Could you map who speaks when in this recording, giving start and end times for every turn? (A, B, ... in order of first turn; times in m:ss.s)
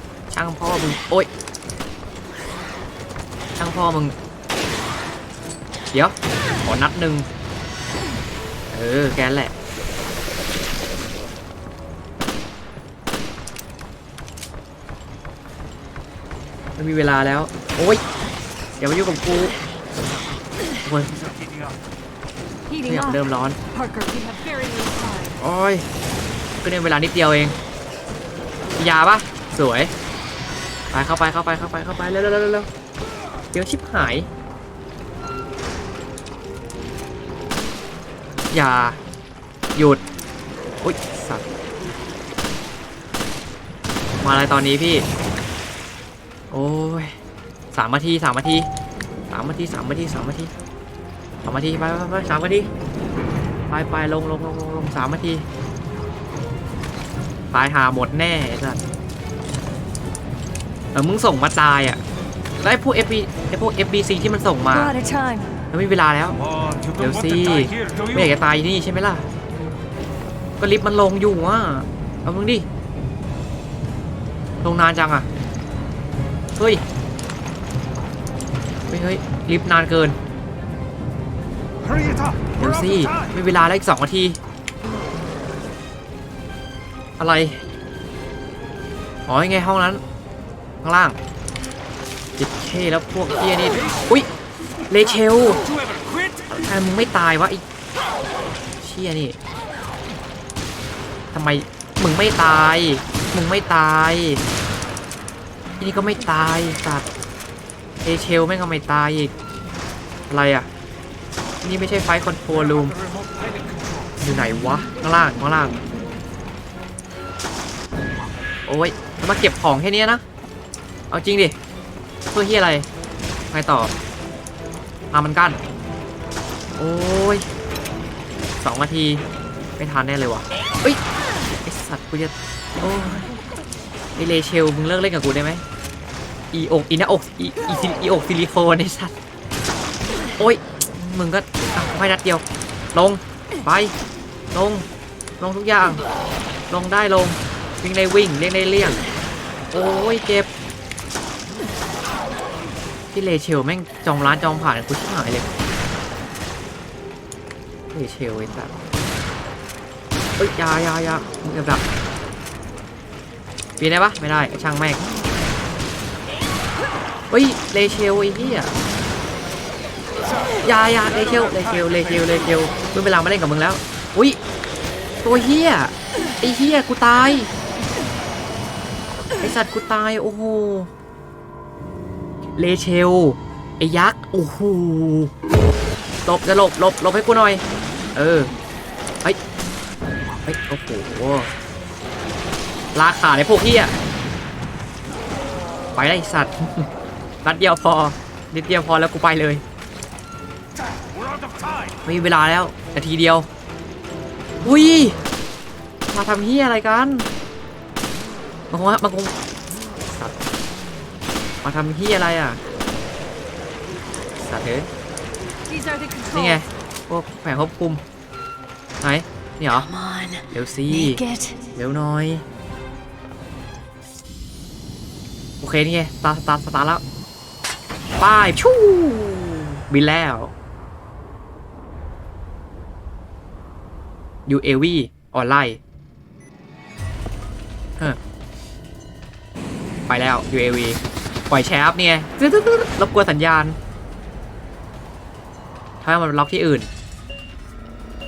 0:00.3-0:01.3 A
0:03.6-0:04.1 A
0:05.9-0:07.3 A
0:08.7-0:09.5 A
0:16.8-0:18.0 A
0:18.8-0:19.5 A
0:20.8-0:21.1 A
0:21.1-0:21.8 B
0:22.7-0:25.4 C
0:22.8-0:23.6 A
0:25.4-0:25.8 A
0:26.6-0:27.6 A
0:28.8-0:29.9 A
0:30.9-0:32.7 A
0:33.5-0:34.3 A
0:38.5-0:39.0 A
0:39.7-0:40.0 A
0:40.8-0:41.4 A
0:44.2-0:45.0 A
0:46.5-0:47.1 A
0:47.7-0:48.7 A
0:49.3-0:50.5 A
0:51.4-0:52.7 A
0:53.7-0:55.4 A
0:57.5-0:58.8 A
1:00.9-1:02.0 A
1:02.6-1:04.9 A
1:04.7-1:05.5 C
1:05.7-1:06.4 A
1:06.4-1:08.4 B
1:07.0-1:09.3 A
1:10.6-1:12.6 A
1:14.6-1:15.3 A
1:16.6-1:16.8 A
1:18.9-1:20.2 A
1:21.8-1:23.3 B
1:22.6-1:24.4 A
1:27.2-1:27.6 A
1:29.3-1:30.0 A
1:30.8-1:31.2 A
1:32.4-1:34.3 A
1:34.9-1:35.6 A
1:35.6-1:36.4 B
1:36.5-1:37.6 A
1:38.8-1:39.4 A
1:41.3-1:44.4 A
1:45.8-1:47.0 A
1:48.0-1:49.3 A
1:50.3-1:50.7 A
1:51.6-1:52.9 A
1:52.5-1:54.1 B
1:54.2-1:55.8 A
1:58.7-2:00.2 A
2:01.1-2:01.6 A
2:02.3-2:02.9 A
2:03.5-2:03.9 A
2:05.1-2:05.6 A
2:06.8-2:07.4 A
2:08.6-2:09.2 A
2:09.8-2:11.0 A
2:11.6-2:13.3 A
2:14.2-2:15.6 A
2:16.5-2:19.1 A
2:20.4-2:23.9 A
2:24.5-2:24.8 A
2:25.4-2:26.0 A
2:26.7-2:29.0 A
2:29.7-2:30.5 A
2:33.1-2:35.5 A
2:37.9-2:38.7 A
2:40.4-2:41.8 A
2:43.8-2:45.0 A
2:47.3-2:48.7 A
2:50.4-2:52.5 B
2:50.6-2:54.4 A
2:55.2-2:57.5 A
2:59.4-3:00.9 A
3:02.6-3:05.3 A
3:06.2-3:07.6 A
3:08.1-3:08.5 A
3:10.4-3:11.5 A
3:12.9-3:13.9 A
3:16.0-3:16.9 A
3:17.4-3:19.6 A
3:20.9-3:22.0 B
3:22.0-3:23.5 A
3:24.6-3:25.2 A
3:26.1-3:27.3 A
3:28.7-3:29.3 A
3:31.6-3:32.6 A
3:34.4-3:34.9 A
3:35.7-3:36.7 C
3:36.3-3:38.0 A
3:39.0-3:39.9 A
3:39.7-3:41.7 C
3:40.5-3:41.2 A
3:41.7-3:42.4 A
3:45.6-3:47.0 A
3:48.2-3:50.5 A
3:54.4-3:55.8 A
4:00.1-4:03.8 A
4:06.0-4:06.9 A